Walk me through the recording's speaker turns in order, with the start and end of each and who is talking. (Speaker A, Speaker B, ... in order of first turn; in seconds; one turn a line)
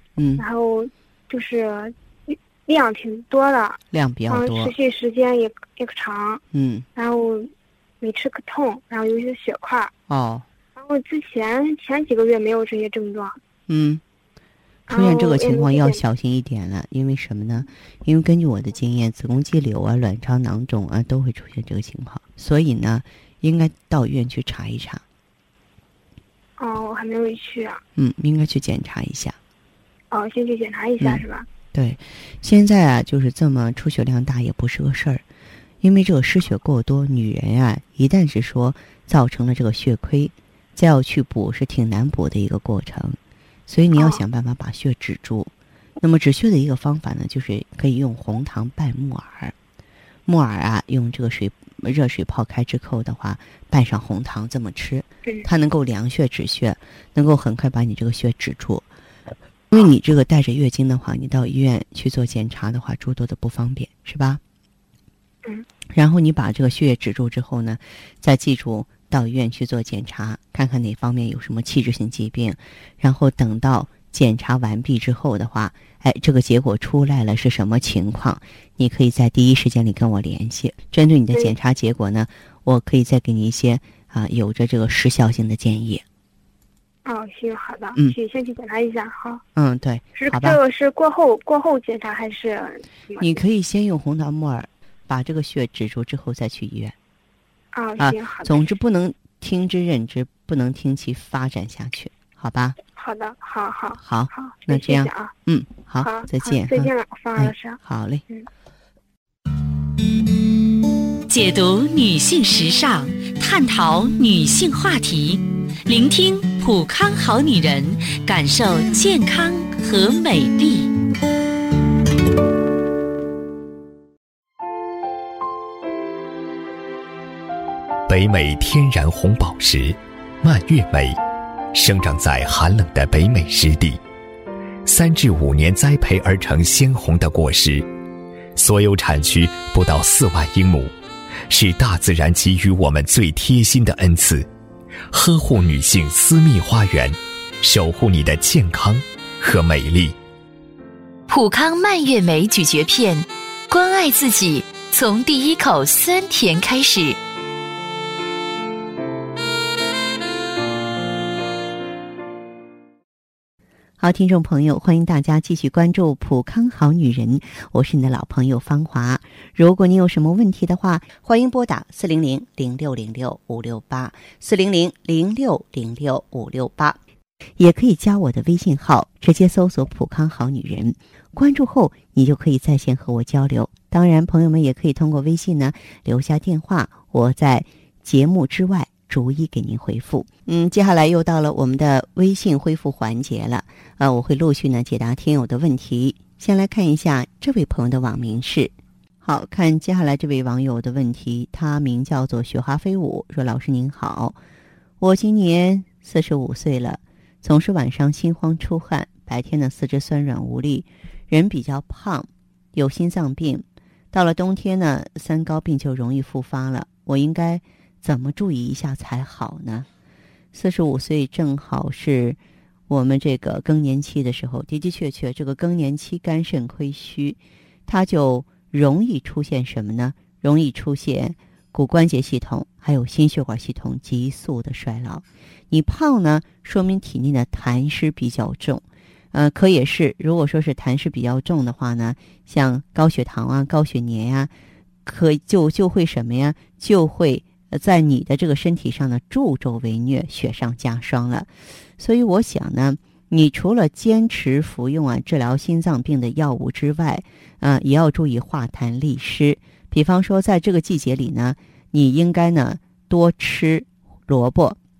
Speaker A: 0.2-0.4
Speaker B: 0.4-6.4
Speaker A: 3.9-4.7
Speaker A: 6.5-6.9
Speaker B: 7.0-9.9
Speaker A: 10.1-10.5
Speaker B: 10.8-13.4
Speaker A: 13.7-14.0
Speaker B: 14.9-16.0
Speaker A: 14.9-25.0
Speaker B: 26.6-27.8
Speaker A: 27.9-29.4
Speaker B: 30.1-31.4
Speaker A: 31.0-35.2
Speaker A: 35.8-49.5
Speaker A: 50.2-58.9
Speaker A: 59.7-64.4
Speaker A: 65.9-86.0
Speaker B: 87.0-89.4
Speaker A: 89.5-90.6
Speaker B: 90.2-93.4
Speaker A: 93.2-96.9
Speaker B: 97.7-98.6
Speaker A: 98.0-102.8
Speaker B: 103.0-105.3
Speaker A: 104.0-108.2
Speaker B: 106.0-107.8
Speaker C: 111.3-120.9
Speaker D: 128.1-131.2
Speaker D: 131.7-134.0
Speaker D: 134.8-137.9
Speaker D: 138.6-140.9
Speaker D: 141.5-144.5
Speaker D: 145.1-150.1
Speaker E: 151.3-157.2
Speaker A: 164.0-177.0
Speaker A: 177.6-204.4
Speaker A: 205.0-219.9
Speaker A: 220.5-244.5
Speaker A: 245.0-264.8